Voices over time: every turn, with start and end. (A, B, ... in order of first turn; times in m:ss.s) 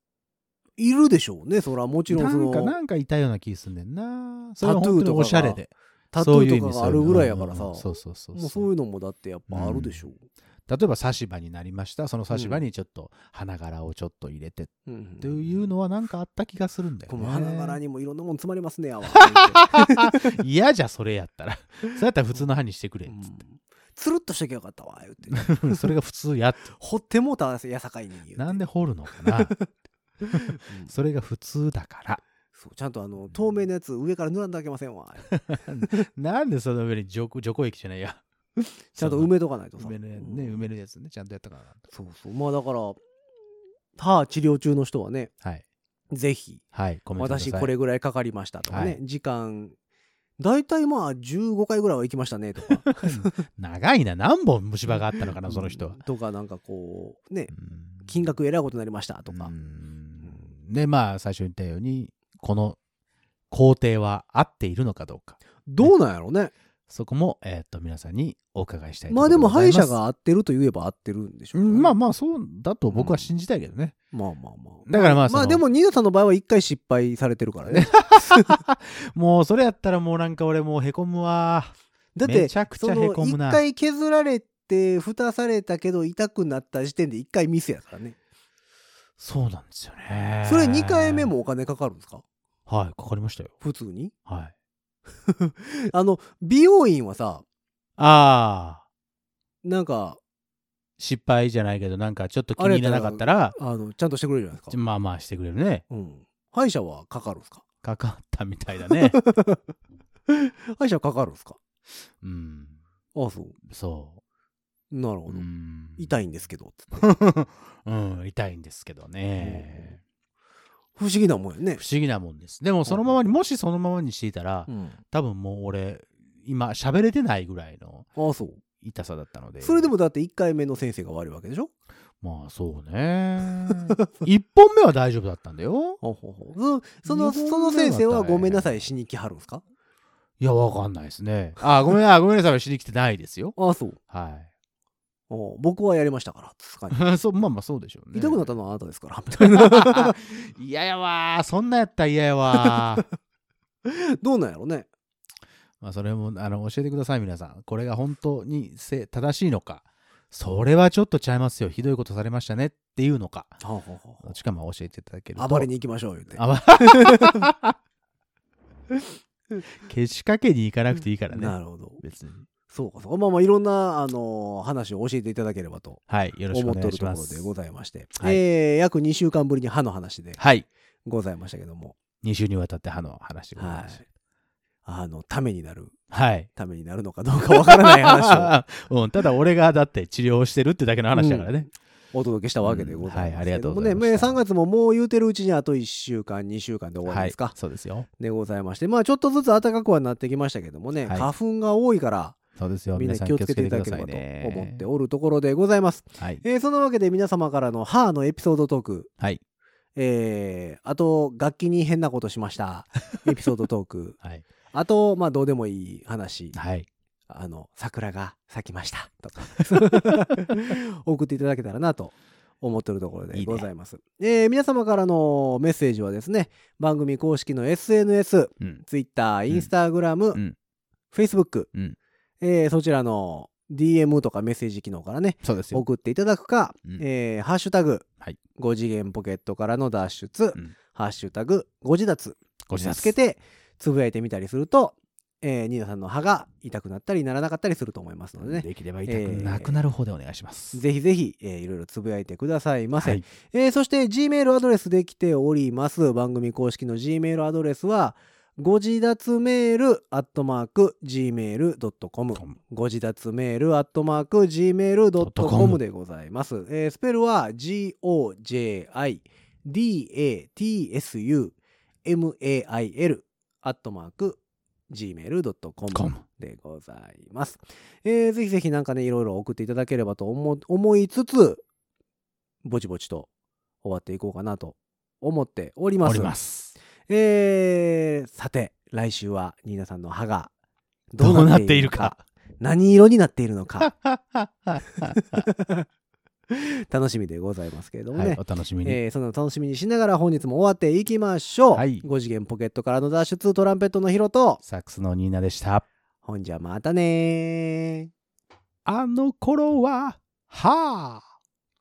0:00.8-0:02.8 A
0:02.1-0:08.7 B
0:04.6-0:05.6 A
0:06.1-0:10.2 A
0:09.5-0:10.0 B
0:10.7-0:17.8 B
0:12.3-0:12.6 A
0:14.8-0:15.6 A
0:17.1-0:20.4 A
0:19.1-0:23.3 B
0:23.1-0:25.9 A
0:25.3-0:26.7 B
0:26.8-0:29.7 A
0:28.4-0:29.5 B
0:30.2-0:30.9 A
0:30.3-0:32.2 B
0:32.5-0:36.0 A
0:35.3-0:38.2 B
0:38.6-0:40.6 A
0:39.0-0:41.8 B
0:41.9-0:43.0 A
0:44.0-0:45.3 A
0:46.1-0:46.6 A
0:46.7-0:47.7 B
0:47.2-0:49.8 A
0:48.7-0:49.0 B
0:50.4-0:53.4 A
0:52.8-0:56.0 B
0:54.8-0:59.5 A
0:57.5-0:58.1 B
0:59.3-1:02.8 B
1:00.2-1:00.5 A
1:03.5-1:05.9 B
1:05.6-1:06.5 A
1:06.9-1:09.9 B
1:09.1-1:11.9 A
1:11.5-1:14.0 B
1:12.9-1:13.3 A
1:14.1-1:18.6 A
1:14.8-1:15.6 B
1:17.7-1:23.6 B
1:22.1-1:28.2 A
1:29.2-1:31.3 B
1:30.4-1:32.2 A
1:32.7-1:33.5 B
1:33.6-1:34.1 A
1:34.3-1:34.5 B
1:35.3-1:37.4 A
1:38.0-1:38.8 B
1:39.6-1:40.2 A
1:41.0-1:43.6 B
1:42.6-1:44.8 A
1:44.7-1:45.8 B
1:45.9-1:47.6 A
1:47.8-1:49.2 B
1:49.0-1:49.7 A
1:50.3-1:51.6 A
1:52.2-1:52.8 B
1:53.1-1:53.6 A
1:53.6-1:54.2 B
1:54.9-1:55.4 A
1:55.3-1:56.2 B
1:56.0-1:57.1 A
1:57.0-2:00.0 B
1:59.4-2:00.0 A
2:01.0-2:01.8 A
2:01.8-2:08.1 B
2:02.8-2:03.2 A
2:04.7-2:05.0 A
2:08.2-2:08.6 A
2:08.8-2:09.9 B
2:09.6-2:11.7 A
2:12.2-2:16.0 B
2:16.0-2:19.6 A
2:17.0-2:18.9 B
2:20.4-2:23.6 B
2:23.6-2:24.0 A
2:24.1-2:24.5 B
2:25.3-2:27.1 A
2:26.9-2:28.5 B
2:28.1-2:30.2 A
2:29.4-2:33.0 B
2:32.5-2:33.0 A
2:33.8-2:34.9 A
2:35.8-2:43.6 B
2:43.6-2:44.3 A
2:44.2-2:45.7 B
2:45.4-2:47.4 A
2:46.4-2:47.7 B
2:49.8-2:52.5 B
2:51.3-2:52.0 A
2:52.7-3:00.4 A
2:56.1-2:57.5 B
3:00.4-3:00.7 B
3:01.0-3:02.0 A
3:02.2-3:04.0 B
3:03.6-3:04.0 A
3:04.8-3:06.0 A
3:06.1-3:06.5 B
3:06.5-3:08.5 A
3:07.6-3:11.7 B
3:11.1-3:11.5 A
3:12.1-3:17.6 A
3:12.6-3:14.4 B
3:17.1-3:18.1 B
3:18.1-3:22.4 A
3:22.6-3:24.8 B
3:22.9-3:29.1 A
3:30.0-3:34.2 A
3:34.7-3:36.6 A
3:36.5-3:36.9 B
3:37.3-3:50.4 A
3:43.3-3:43.7 B
3:51.1-3:51.7 A
3:52.4-4:09.8 A
3:55.4-3:55.8 B
4:02.7-4:03.1 B
4:08.4-4:10.8 B
4:10.7-4:41.6 A
4:13.0-4:13.2 B
4:25.2-4:25.8 B
4:35.9-4:36.2 B
4:42.6-4:43.3 A
4:43.8-4:46.3 A
4:46.0-4:46.7 B
4:47.1-4:50.5 A
4:51.1-4:53.9 A
4:51.2-4:52.2 B
4:53.8-4:55.4 B
4:54.9-4:55.8 A
4:56.5-5:04.6 A
4:58.1-4:59.0 B
5:01.7-5:02.0 B
5:04.6-5:05.8 B
5:06.2-5:08.1 A
5:08.8-5:11.3 B